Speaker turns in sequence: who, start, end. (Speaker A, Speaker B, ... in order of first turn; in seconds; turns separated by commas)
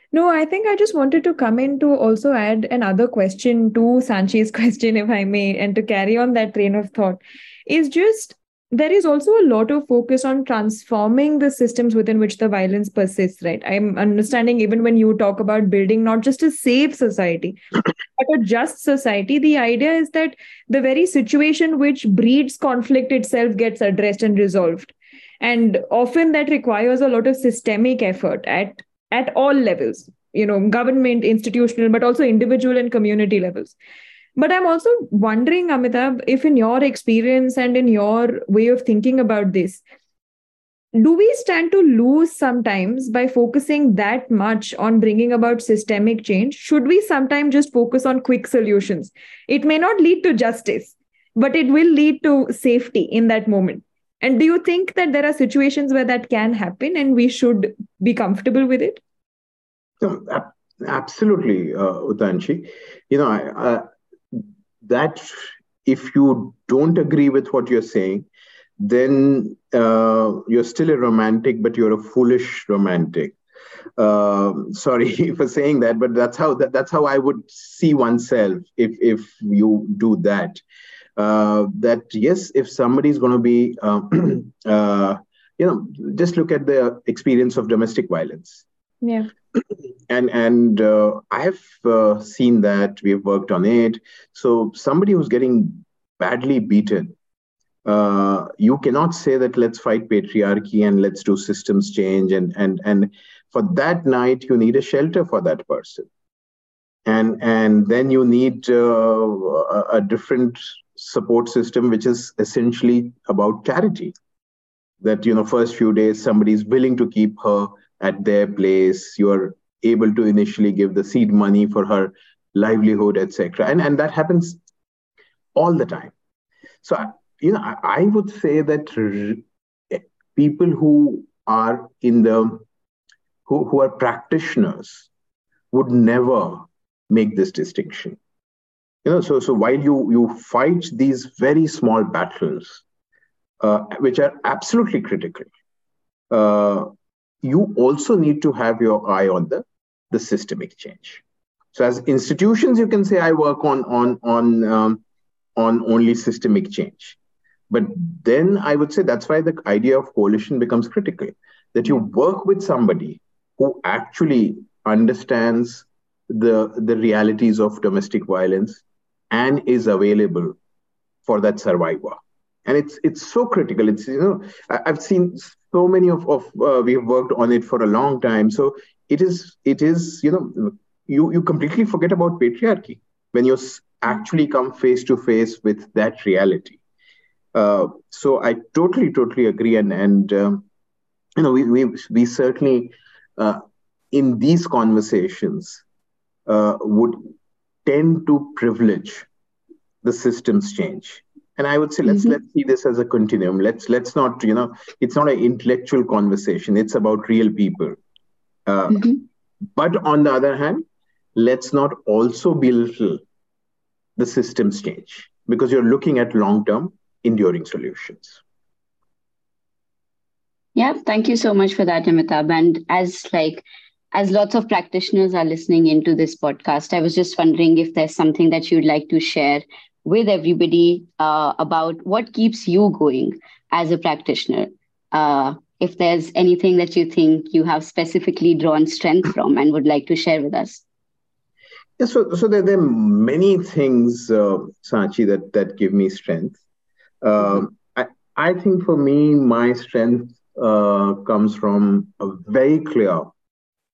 Speaker A: 0.1-17.6, Speaker A: 18.2-33.8, Speaker A: 34.4-39.8, Speaker A: 41.0-59.0, Speaker B: 60.0-68.3, Speaker B: 68.8-73.3, Speaker B: 74.0-80.6, Speaker B: 81.2-88.6, Speaker A: 89.0-89.3, Speaker B: 89.5-97.1, Speaker B: 97.8-106.1, Speaker B: 107.0-114.1, Speaker B: 115.0-124.6, Speaker B: 125.5-126.1, Speaker B: 126.8-132.6, Speaker B: 133.4-135.1, Speaker B: 135.7-138.2, Speaker B: 139.0-142.8, Speaker B: 143.6-145.5, Speaker B: 146.3-146.9, Speaker B: 147.4-155.0, Speaker B: 155.6-157.2, Speaker B: 157.7-170.6, Speaker B: 171.2-186.8, Speaker B: 187.5-190.6, Speaker B: 191.4-193.6, Speaker B: 194.1-195.8, Speaker B: 196.5-197.2, Speaker B: 197.8-199.2, Speaker B: 200.0-208.0, Speaker C: 202.1-202.3, Speaker B: 208.7-209.1, Speaker C: 208.9-209.2, Speaker B: 209.7-213.2, Speaker B: 214.2-218.4, Speaker C: 220.8-240.8, Speaker B: 242.0-246.6, Speaker B: 247.2-253.3